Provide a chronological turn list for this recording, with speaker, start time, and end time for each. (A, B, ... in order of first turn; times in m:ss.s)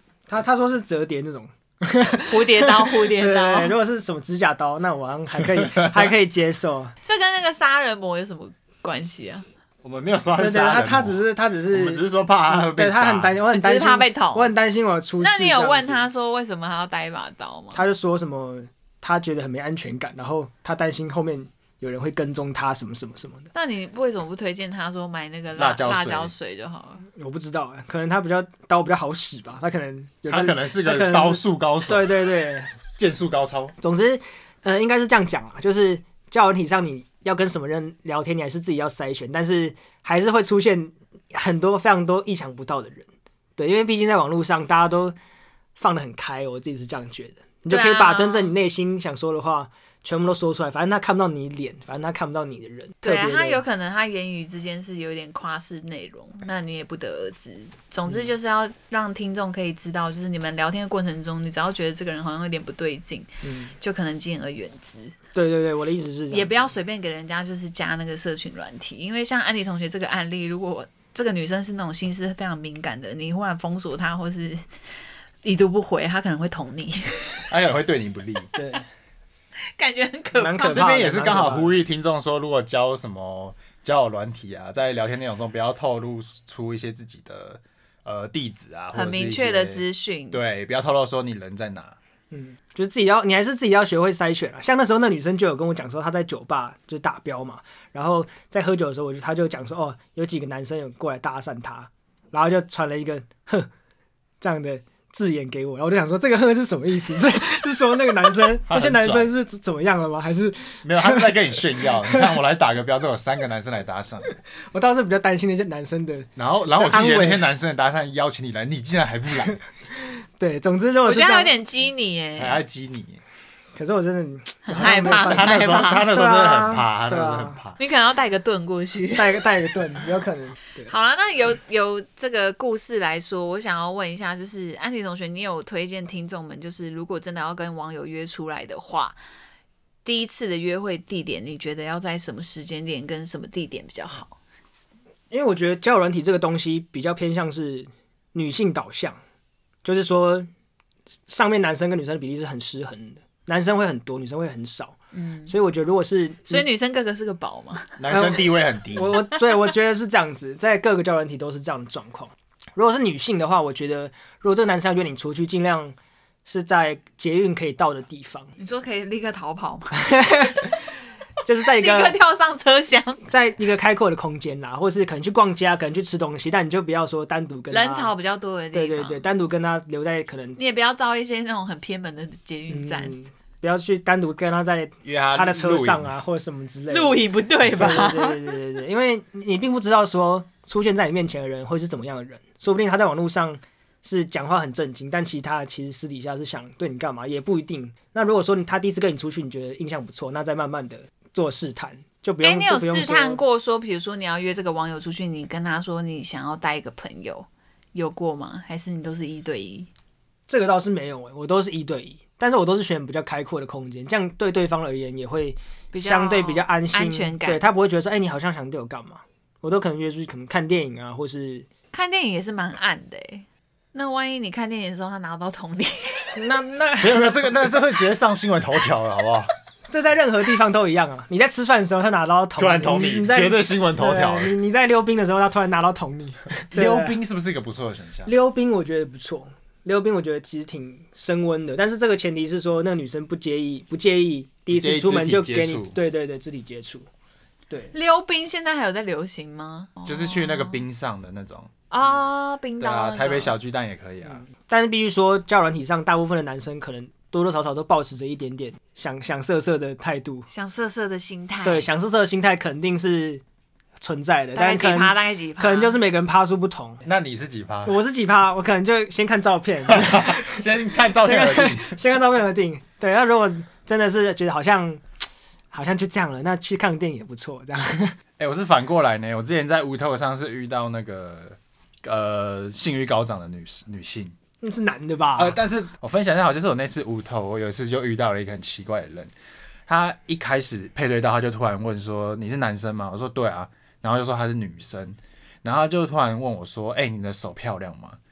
0:00.3-0:06.9 A
0:02.2-0:03.8 B
0:05.6-0:06.1 C
0:07.0-0:09.4 B
0:09.8-0:13.4 C
0:10.4-0:16.0 A
0:13.5-0:14.5 B
0:15.2-0:17.8 B
0:17.7-0:23.5 A
0:23.6-0:27.0 B
0:25.5-0:26.3 C
0:27.2-0:32.7 A
0:30.3-0:32.1 C
0:33.0-0:33.8 C
0:33.8-0:45.2 A
0:45.8-0:53.6 A
0:47.7-0:48.5 B
0:53.0-1:05.2 B
1:03.4-1:03.7 A
1:05.4-1:06.7 A
1:06.3-1:14.7 B
1:15.4-1:17.4 B
1:17.5-1:18.5 C
1:18.5-1:18.8 A
1:19.7-1:20.8 B
1:20.4-1:21.8 A
1:20.7-1:32.0 C
1:28.9-1:30.4 B
1:32.3-1:43.7 A
1:44.4-1:51.5 A
1:48.7-1:49.3 C
1:50.8-1:54.3 C
1:54.2-1:57.4 A
1:56.4-1:59.6 C
2:00.4-2:01.5 A
2:01.0-2:02.6 B
2:02.4-2:03.2 C
2:03.8-2:07.6 A
2:04.7-2:06.1 B
2:04.9-2:07.8 C
2:07.8-2:09.5 B
2:09.1-2:10.9 A
2:10.9-2:19.2 B
2:20.0-2:24.4 B
2:25.3-2:29.2 A
2:29.8-2:30.5 A
2:31.3-2:35.0 A
2:35.1-2:35.5 B
2:35.5-2:36.7 A
2:36.5-2:38.0 B
2:38.0-2:39.2 C
2:38.1-2:48.5 A
2:48.6-2:50.7 B
2:50.0-2:50.7 A
2:51.4-2:52.2 A
2:51.6-2:53.2 B
2:53.3-2:58.1 A
2:57.7-2:59.2 B
2:58.7-3:00.6 A
3:00.6-3:03.2 B
3:02.7-3:23.4 A
3:05.0-3:06.1 C
3:06.9-3:08.6 B
3:22.4-3:29.9 B
3:30.5-3:41.7 A
3:35.9-3:37.6 B
3:41.9-3:46.4 B
3:46.4-3:47.4 A
3:47.0-3:49.5 C
3:49.9-3:57.2 A
3:52.6-3:54.5 C
3:56.7-3:58.3 C
3:58.3-4:07.1 A
4:04.7-4:06.0 C
4:07.9-4:10.8 B
4:10.1-4:11.7 C
4:11.9-4:13.5 B
4:12.8-4:14.4 C
4:14.5-4:20.5 A
4:20.5-4:21.9 B
4:21.6-4:23.4 A
4:24.0-4:27.0 A
4:24.6-4:26.0 B
4:27.0-4:28.0 C
4:27.8-4:30.6 A
4:29.9-4:32.0 C
4:31.2-4:35.0 A
4:35.7-4:38.2 A
4:38.4-4:44.4 C
4:44.6-4:45.6 A
4:45.4-4:49.3 C
4:49.9-4:58.2 C